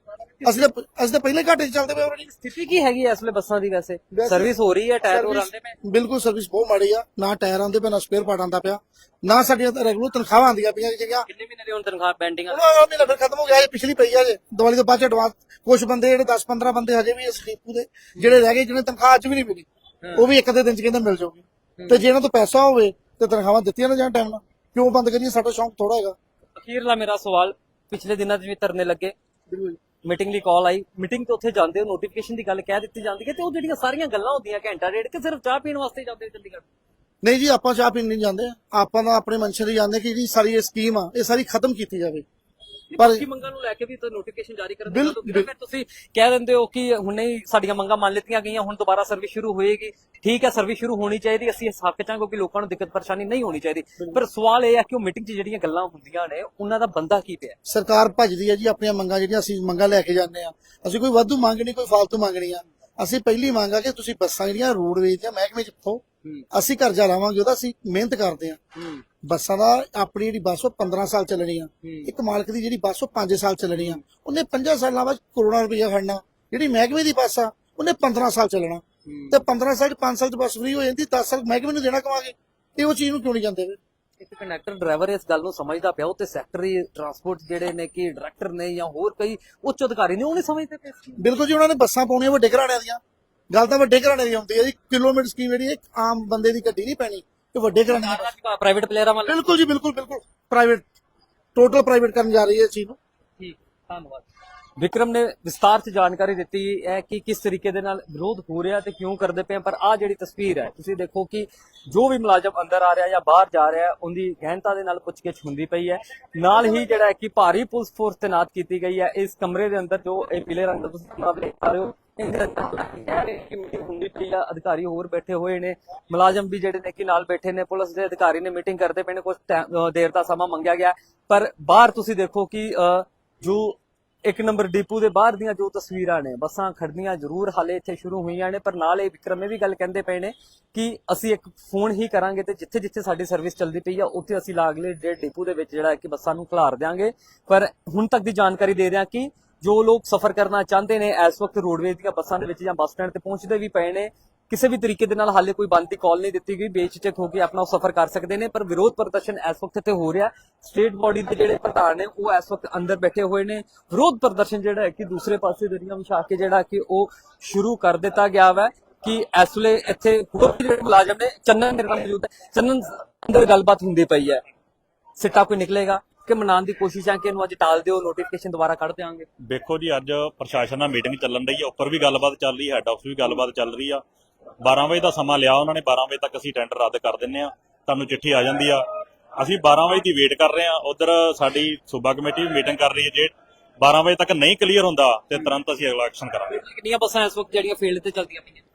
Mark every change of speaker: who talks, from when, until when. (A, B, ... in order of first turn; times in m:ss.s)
0:00.4-0:00.7 A
0:00.4-0:02.3 B
0:02.2-0:05.8 A
0:04.1-0:04.5 B
0:05.0-0:11.3 B
0:11.3-0:12.6 A
0:12.5-0:26.2 B
0:18.2-0:18.4 A
0:20.0-0:20.3 A
0:21.8-0:22.1 A
0:26.6-0:29.1 A
0:29.5-0:29.8 B
0:30.0-0:36.7 A
0:37.2-0:42.2 B
0:42.9-0:57.6 A
0:43.0-0:43.3 B
0:44.9-0:45.5 B
0:57.7-1:08.6 B
1:08.8-1:09.0 A
1:09.2-1:23.8 B
1:11.8-1:12.1 A
1:13.7-1:14.0 A
1:19.1-1:19.4 A
1:24.2-1:31.2 A
1:31.2-1:33.0 B
1:33.5-1:38.3 B
1:37.9-1:39.5 A
1:39.3-1:40.8 B
1:41.6-1:43.0 B
1:43.4-1:44.3 A
1:44.8-2:54.4 A
1:56.5-1:57.0 B
2:55.2-2:59.3 A
2:59.5-3:04.0 C
3:04.6-3:08.8 C
3:09.4-3:16.6 C
3:16.5-3:18.6 A